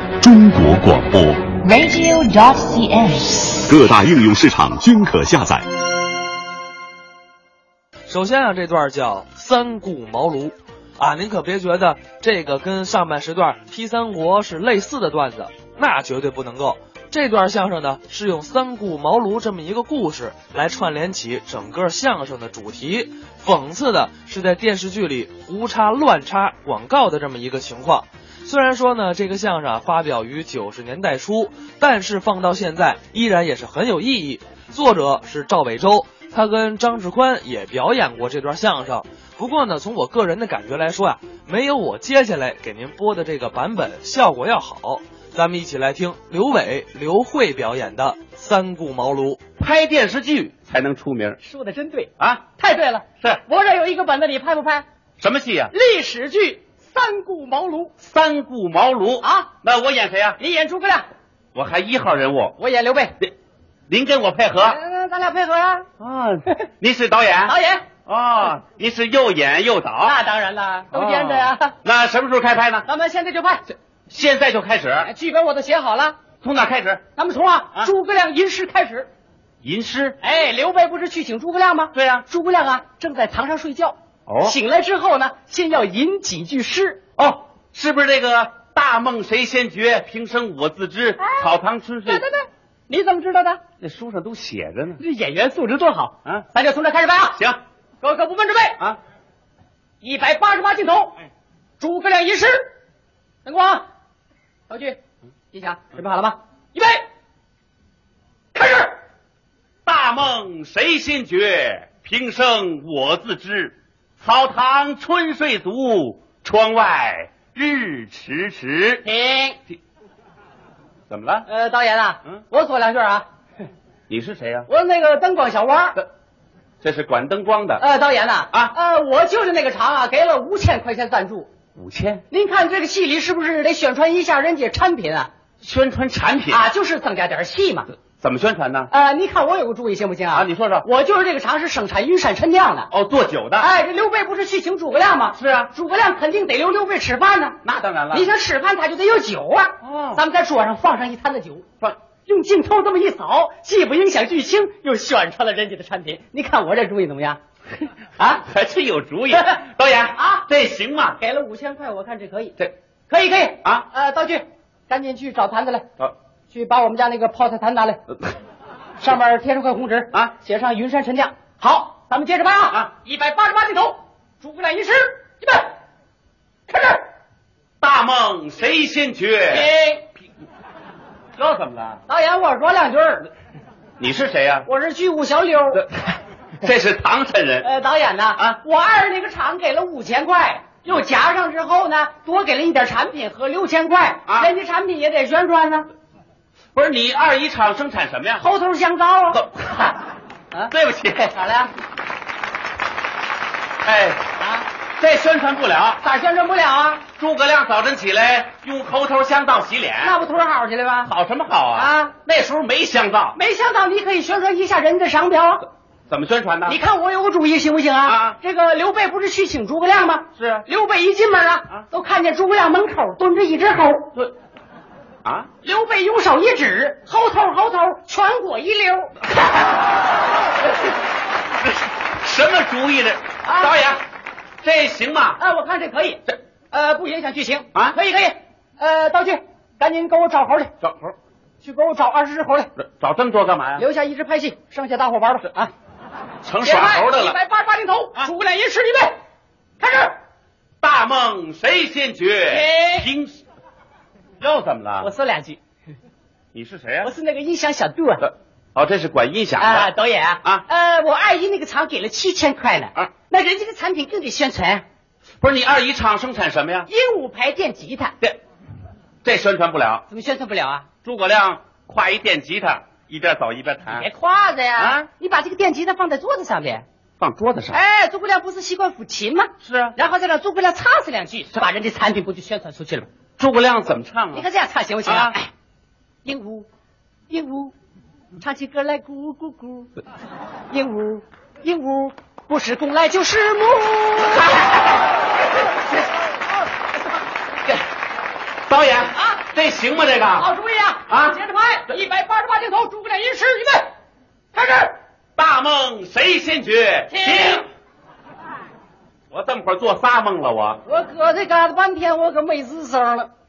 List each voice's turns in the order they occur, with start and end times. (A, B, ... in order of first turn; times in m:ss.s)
0:00.2-0:01.6 A
0:01.6-0:03.6 B
0:03.7-0:05.7 A
0:08.1-0:49.4 C
0:49.6-0:51.4 D
0:51.4-0:54.8 E
0:55.2-0:55.7 D
0:55.7-0:57.9 E
0:58.0-1:00.4 D
0:59.2-0:59.5 E
1:00.4-1:01.1 E
1:01.5-1:02.6 D
1:02.6-1:03.2 E
1:03.9-1:04.8 D
1:04.6-1:05.8 E
1:06.0-1:10.2 D
1:07.4-1:07.9 E
1:10.0-1:11.7 E
1:10.9-1:12.8 D
1:12.8-1:13.7 E
1:14.1-1:15.1 D
1:15.0-1:16.2 E
1:16.4-1:17.0 D
1:17.2-1:19.1 E
1:19.6-1:20.2 D
1:20.2-1:27.0 E
1:21.9-1:22.2 D
1:24.3-1:24.6 D
1:27.2-1:32.2 D
1:31.2-1:31.5 E
1:32.0-1:33.6 E
1:33.8-1:35.0 D
1:35.0-1:37.4 E
1:37.3-1:37.6 D
1:38.0-1:38.8 E
1:40.0-1:41.2 E
1:41.8-1:42.7 E
1:43.4-1:43.8 E
1:44.7-1:45.0 E
1:45.5-1:47.0 E
1:48.5-1:49.0 E
1:49.8-1:59.0 D
1:59.0-1:59.6 E
2:01.1-2:01.5 D
2:01.5-2:03.3 E
2:04.1-2:04.7 D
2:04.7-2:06.0 E
2:06.8-2:07.8 D
2:07.8-2:11.5 E
2:11.7-2:12.2 D
2:12.3-2:15.3 E
2:15.6-2:16.6 D
2:16.5-2:17.9 E
2:18.1-2:18.9 D
2:18.9-2:22.9 E
2:20.3-2:20.8 D
2:22.9-2:23.7 D
2:23.6-2:27.6 E
2:25.3-2:25.7 D
2:27.6-2:28.3 D
2:28.1-2:31.6 E
2:29.8-2:30.2 D
2:32.2-2:37.4 E
2:38.2-2:38.4 E
2:38.4-2:41.2 D
2:40.2-2:40.4 E
2:41.2-2:42.6 E
2:43.1-2:45.9 E
2:46.5-2:48.0 E
2:49.0-2:55.7 E
2:56.7-2:57.0 E
2:57.8-2:59.7 D
2:59.5-3:00.0 E
3:01.4-3:02.0 D
3:02.1-3:03.3 E
3:04.0-3:04.7 D
3:04.6-3:05.9 E
3:06.6-3:07.7 D
3:07.6-3:15.9 E
3:14.2-3:14.5 D
3:16.7-3:18.5 D
3:18.4-3:19.4 E
3:19.3-3:19.9 D
3:20.7-3:21.3 D
3:21.2-3:21.7 E
3:23.8-3:24.2 D
3:24.4-3:24.6 E
3:25.0-3:26.0 D
3:26.0-3:27.0 E
3:27.2-3:30.2 D
3:30.0-3:31.1 E
3:31.0-3:33.4 D
3:31.7-3:32.1 E
3:33.3-3:35.7 E
3:36.1-3:36.8 D
3:36.6-3:44.1 E
3:38.0-3:38.4 D
3:40.4-3:40.6 D
3:45.2-3:45.5 D
3:45.6-3:49.2 E
3:52.1-3:54.0 D
3:53.4-3:53.9 E
3:54.6-3:55.4 D
3:55.4-4:00.7 E
4:00.8-4:01.1 D
4:01.6-4:02.7 E
4:02.8-4:03.8 D
4:03.8-4:05.7 E
4:06.4-4:07.4 D
4:06.6-4:09.2 E
4:09.8-4:10.2 E
4:10.8-4:13.4 D
4:12.5-4:13.1 E
4:14.4-4:15.1 D
4:15.0-4:15.6 E
4:16.5-4:17.1 D
4:17.0-4:18.3 E
4:18.2-4:19.9 D
4:19.6-4:24.8 E
4:25.4-4:26.9 D
4:26.9-4:28.2 E
4:29.2-4:30.0 D
4:30.1-4:30.9 E
4:31.0-4:34.1 D
4:33.9-4:36.8 E
4:34.8-4:35.1 D
4:37.2-4:37.8 D
4:37.7-4:43.1 E
4:39.6-4:40.0 D
4:43.4-4:44.4 D
4:44.3-4:45.5 E
4:45.0-4:45.3 D
4:46.2-4:46.7 E
4:47.3-4:47.7 E
4:48.4-4:49.9 E
4:50.7-4:54.7 E
4:54.4-4:54.8 D
4:58.7-5:00.5 D
5:00.3-5:03.9 E
5:01.1-5:01.4 D
5:04.5-5:05.0 E
5:05.4-5:07.7 D
5:07.1-5:07.7 E
5:09.3-5:10.8 D
5:10.8-5:13.3 E